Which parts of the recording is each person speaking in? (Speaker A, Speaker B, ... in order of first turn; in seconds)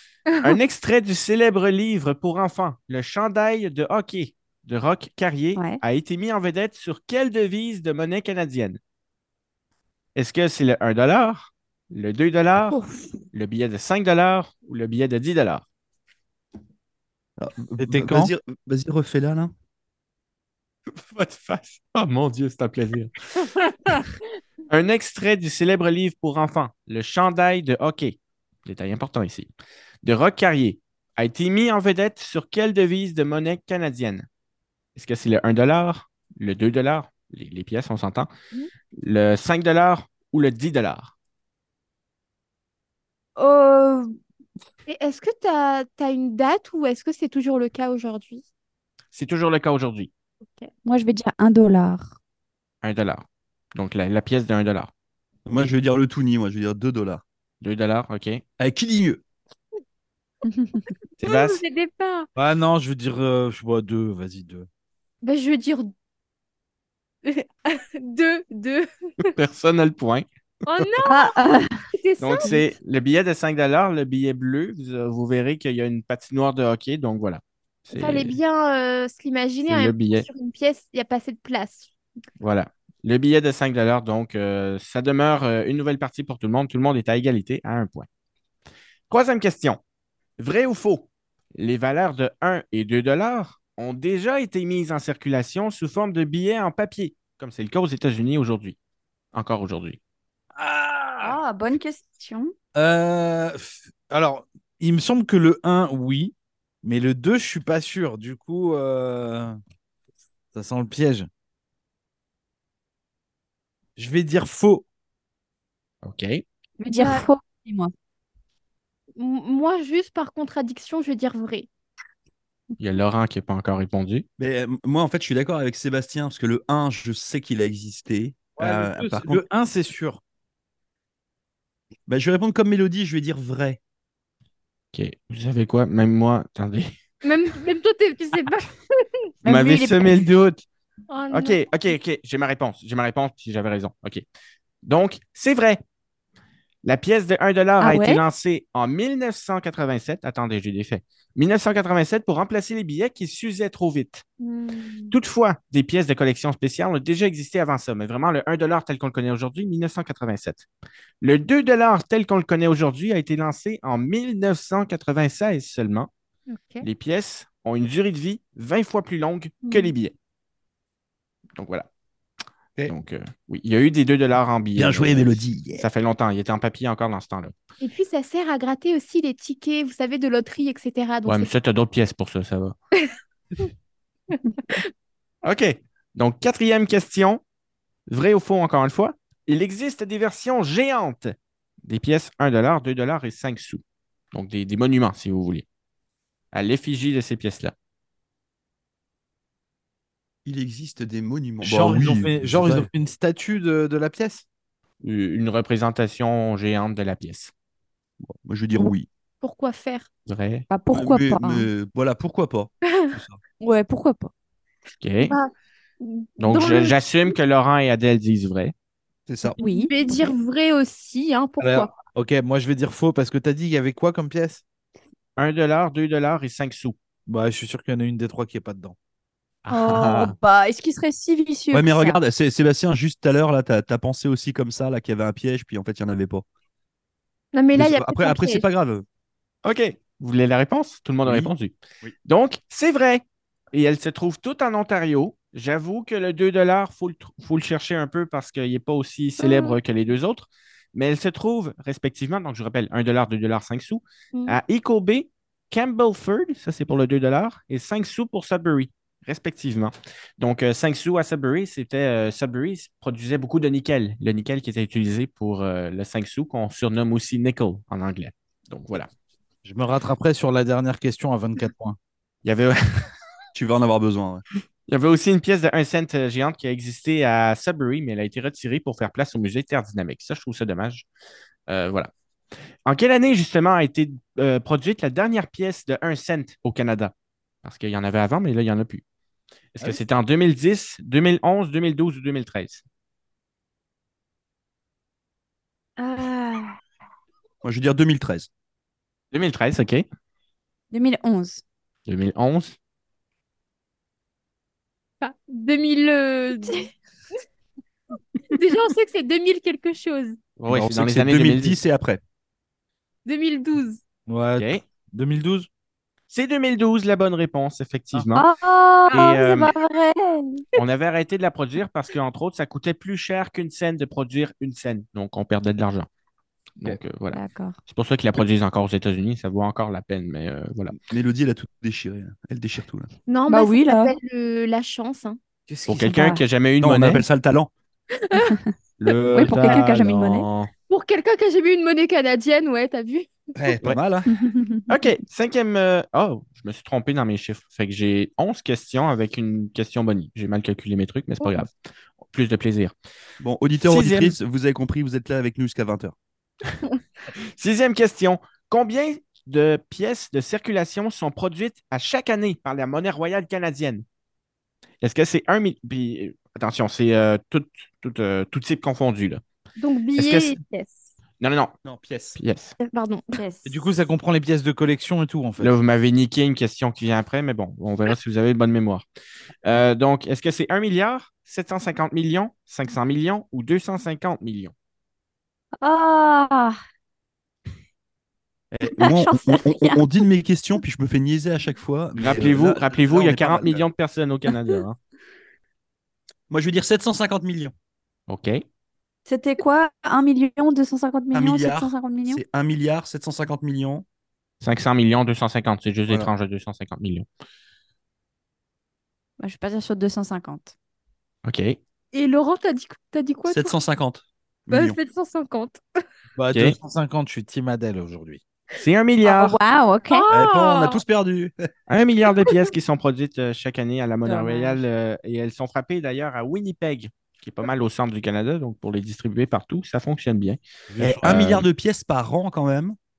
Speaker A: 0.4-8.8, 10.1-12.8, 13.3-15.7, 20.9-23.1, 24.7-29.5, 30.0-34.2, 34.9-38.3, 39.0-41.1, 49.1-50.1, 52.8-54.9, 57.6-58.4, 61.2-61.6, 69.2-70.2, 72.2-78.4, 79.6-80.3, 82.4-88.1, 89.1-89.8, 90.4-98.8, 99.3-100.0, 116.0-116.4, 122.8-124.2, 134.9-137.0, 139.4-140.6, 141.3-144.2, 144.8-145.8, 146.8-154.2, 155.1-160.7, 161.2-166.1, 166.8-170.1, 171.6-171.9, 172.9-177.5, 181.2-182.7, 185.4-187.4, 188.1-193.8, 194.3-195.6, 196.5-197.7, 205.0-207.5, 210.3-210.7, 215.0-215.3, 216.4-218.7, 225.4-226.9, 229.6-230.3, 239.6-269.1, 272.4-273.1, 274.9-281.1, 281.7-282.1, 282.8-289.0, 289.7-292.8, 299.3-300.1, 302.1-302.8, 310.6-311.8, 314.6-314.8, 316.3-318.4, 319.1-319.7, 320.7-326.1, 326.8-331.0, 335.9-337.2, 339.0-339.8, 344.9-351.7, 352.3-352.9, 353.8-354.4, 357.6-364.0, 365.0-369.4, 370.2-370.6, 371.4-371.7, 372.4-372.7, 375.6-379.0, 379.6-384.7, 392.2-395.0, 398.3-398.6, 404.6-407.2, 411.4-411.8, 418.8-419.6, 421.9-430.6, 431.2-431.6
Speaker B: 12.7-13.1, 43.4-44.2, 50.8-52.2, 60.5-60.9, 71.0-71.8, 101.2-102.5, 116.8-117.9, 139.4-140.2, 147.8-148.2, 210.7-211.7, 213.6-214.3, 219.6-220.3, 229.7-232.2, 296.0-296.7, 300.9-301.6, 318.3-320.6, 327.3-327.8, 333.5-334.1, 338.4-338.7, 339.3-340.5, 344.3-344.8, 373.4-373.8, 385.8-386.8, 388.9-390.2, 399.3-402.4, 409.4-410.7, 419.2-420.2, 424.2-424.8
Speaker C: 17.4-19.5, 55.5-57.2, 58.6-59.2, 124.4-129.4, 132.1-133.8, 174.8-175.9, 200.4-202.9, 208.2-209.1, 210.9-213.4, 219.3-219.6, 231.7-236.4, 237.7-239.0, 241.2-241.5, 273.5-274.4, 297.6-298.5, 310.7-312.2, 330.9-333.1, 336.8-337.7, 343.6-344.3, 353.4-356.1, 371.8-372.4, 388.7-393.9, 396.5-397.7, 401.3-404.0, 413.5-415.0, 420.3-421.5, 431.0-432.9
Speaker D: 17.8-18.3, 62.4-64.7, 100.5-101.4, 102.7-109.6, 110.5-111.3, 114.0-114.8, 128.6-130.2, 201.6-204.4, 221.6-224.6, 227.3-228.9, 269.6-272.0, 314.3-315.7, 335.7-336.4, 339.2-340.5, 373.6-375.8, 416.3-418.4, 430.9-431.5
Speaker E: 44.9-48.4, 61.2-62.3, 65.2-65.9, 67.2-69.2, 70.7-71.4, 71.9-72.6, 77.9-81.9, 116.8-117.2, 119.2-121.7, 137.2-138.8, 141.1-141.9, 154.4-155.1, 166.5-166.8, 169.6-169.9, 177.8-181.5, 184.3-184.8, 208.8-210.1, 215.3-217.3, 219.6-221.9, 237.5-238.6, 249.4-249.7, 305.2-306.9, 308.5-310.4, 313.2-314.0, 319.1-319.4, 333.3-335.4, 338.3-338.6, 340.9-343.5, 369.8-371.1, 372.8-373.4, 412.1-413.7, 414.7-415.8, 420.1-421.0